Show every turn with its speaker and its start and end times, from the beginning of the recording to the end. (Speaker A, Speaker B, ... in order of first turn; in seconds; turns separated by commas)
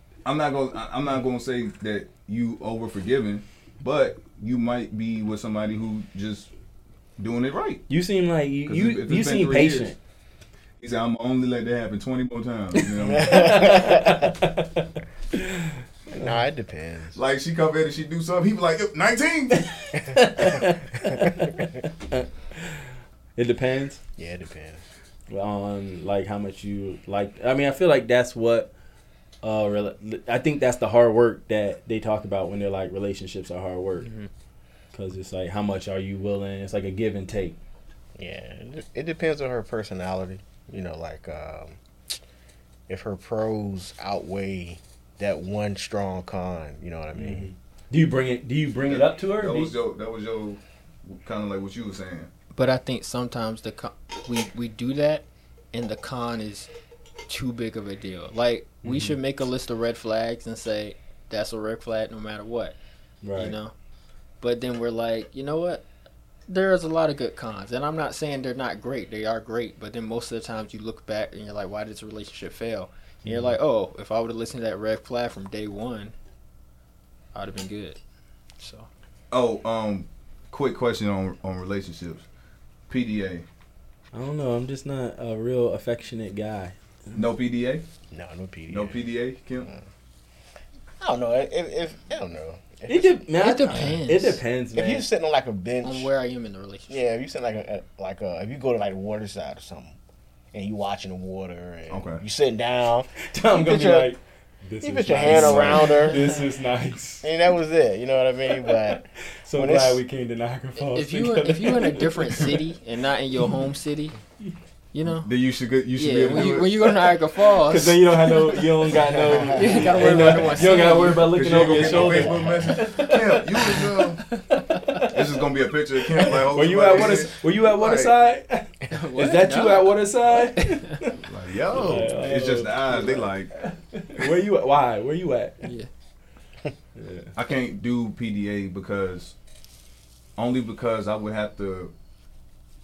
Speaker A: 0.2-6.5, Speaker A: 7.2-7.8, Speaker B: 7.9-10.0, Speaker A: 8.7-9.9, Speaker A: 10.8-13.6, Speaker C: 13.0-14.2, Speaker B: 13.3-16.3, Speaker C: 16.1-17.2, Speaker A: 17.1-19.7, Speaker B: 19.7-24.0, Speaker C: 24.2-24.8, Speaker B: 25.3-28.7, Speaker B: 29.4-34.1, Speaker D: 34.0-34.3, Speaker B: 34.9-37.6, Speaker C: 38.2-41.8, Speaker C: 42.9-47.5, Speaker B: 47.1-49.7, Speaker A: 48.9-52.3, Speaker D: 52.5-56.7, Speaker D: 57.3-62.8, Speaker B: 58.8-59.2, Speaker B: 63.2-63.6, Speaker D: 63.4-63.7, Speaker D: 64.4-65.8, Speaker D: 66.5-76.1, Speaker B: 73.2-73.6, Speaker D: 77.3-78.0, Speaker D: 78.6-78.9, Speaker A: 79.3-82.3, Speaker A: 82.9-83.5, Speaker B: 84.1-87.2, Speaker A: 87.2-87.8, Speaker C: 88.1-89.0, Speaker A: 88.7-89.7, Speaker C: 91.0-93.2, Speaker B: 92.9-95.1, Speaker D: 93.4-94.4, Speaker C: 94.7-96.1, Speaker D: 95.8-97.0, Speaker C: 96.9-100.0, Speaker C: 100.5-104.1, Speaker A: 101.9-102.2, Speaker B: 103.2-107.3, Speaker C: 104.8-106.2, Speaker A: 105.3-105.7, Speaker D: 105.8-106.4, Speaker C: 107.2-110.0, Speaker B: 108.6-112.6, Speaker D: 110.8-114.2, Speaker D: 114.9-115.3, Speaker A: 115.1-116.7, Speaker D: 116.0-119.0, Speaker B: 117.6-123.8, Speaker C: 119.1-120.2, Speaker D: 119.5-121.3, Speaker A: 121.2-124.2, Speaker C: 121.8-122.4, Speaker B: 124.7-125.3, Speaker A: 125.1-128.2, Speaker B: 126.2-135.7, Speaker D: 128.9-131.0, Speaker A: 131.2-133.5, Speaker B: 137.0-137.3, Speaker A: 137.3-139.4, Speaker A: 140.4-141.9